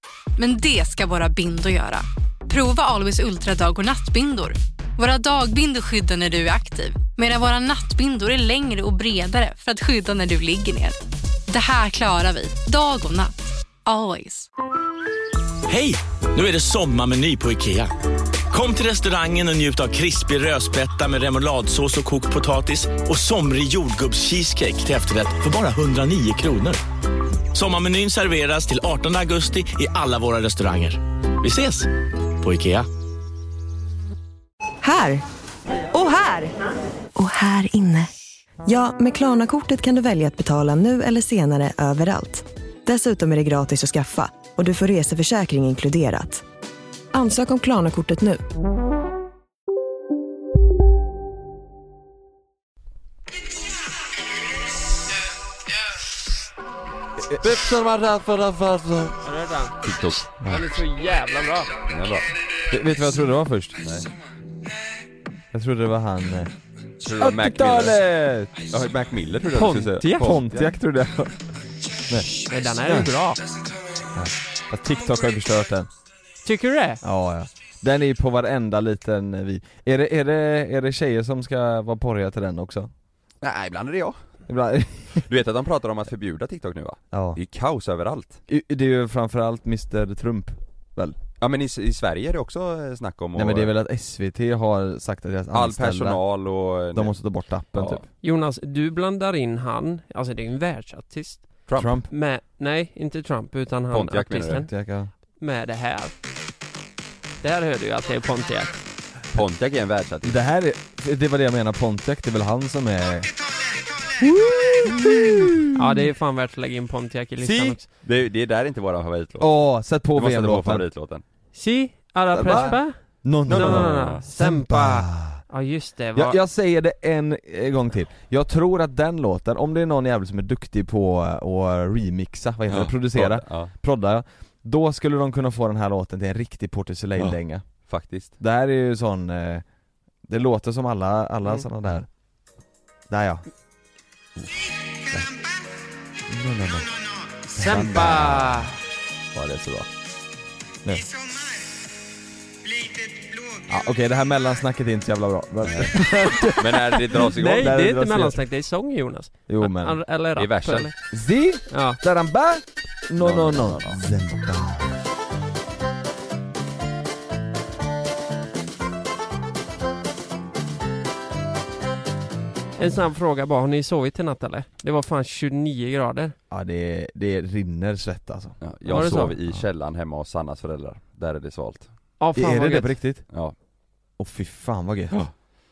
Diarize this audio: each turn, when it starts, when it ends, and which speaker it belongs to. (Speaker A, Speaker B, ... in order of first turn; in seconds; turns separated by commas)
Speaker A: 0.4-13.3, Speaker A: 13.8-14.5, Speaker B: 15.7-17.9, Speaker B: 18.5-26.8, Speaker B: 27.5-32.9, Speaker C: 34.8-35.2, Speaker C: 35.9-36.5, Speaker C: 37.2-38.1, Speaker C: 38.6-46.5, Speaker C: 47.1-48.4, Speaker D: 57.3-57.6, Speaker E: 57.4-59.1, Speaker F: 59.2-59.8, Speaker E: 59.8-60.3, Speaker F: 60.5-61.7, Speaker E: 61.9-62.2, Speaker D: 62.7-63.8, Speaker E: 63.8-64.1, Speaker D: 65.5-66.5, Speaker E: 67.0-68.0, Speaker D: 67.2-68.5, Speaker E: 68.6-70.7, Speaker F: 69.5-70.3, Speaker D: 70.2-71.4, Speaker F: 72.5-73.4, Speaker D: 74.2-75.9, Speaker F: 76.4-77.0, Speaker D: 77.0-82.9, Speaker E: 83.4-84.2, Speaker D: 84.5-85.3, Speaker E: 85.3-88.4, Speaker D: 87.1-87.4, Speaker D: 88.5-91.2, Speaker E: 91.4-93.7, Speaker D: 93.3-96.2, Speaker E: 95.5-97.2, Speaker D: 96.9-98.0, Speaker E: 97.8-98.0, Speaker F: 98.2-104.7, Speaker E: 101.7-101.9, Speaker D: 101.8-102.1, Speaker E: 103.9-104.7, Speaker D: 104.6-105.1, Speaker F: 105.4-106.2, Speaker F: 107.4-108.8, Speaker E: 109.3-110.4, Speaker D: 110.2-113.3, Speaker D: 114.2-115.7, Speaker F: 115.8-117.8, Speaker E: 117.4-121.2, Speaker D: 119.4-120.9, Speaker F: 121.5-126.4, Speaker D: 122.3-125.4, Speaker E: 123.5-124.2, Speaker D: 126.2-137.7, Speaker E: 132.7-133.7, Speaker E: 137.2-138.3, Speaker D: 138.4-139.7, Speaker D: 140.3-142.1, Speaker D: 143.1-143.4, Speaker D: 146.3-148.7, Speaker F: 147.6-148.7, Speaker E: 149.3-149.9, Speaker D: 153.7-158.4, Speaker E: 155.6-157.8, Speaker F: 157.2-160.9, Speaker D: 159.5-160.0, Speaker E: 160.4-160.9, Speaker D: 161.1-165.0, Speaker F: 161.7-162.0, Speaker E: 163.2-164.0, Speaker F: 172.8-176.3, Speaker D: 176.5-179.6, Speaker E: 178.6-181.9, Speaker F: 178.9-179.3, Speaker F: 182.2-183.0, Speaker D: 182.3-183.3, Speaker D: 184.2-185.2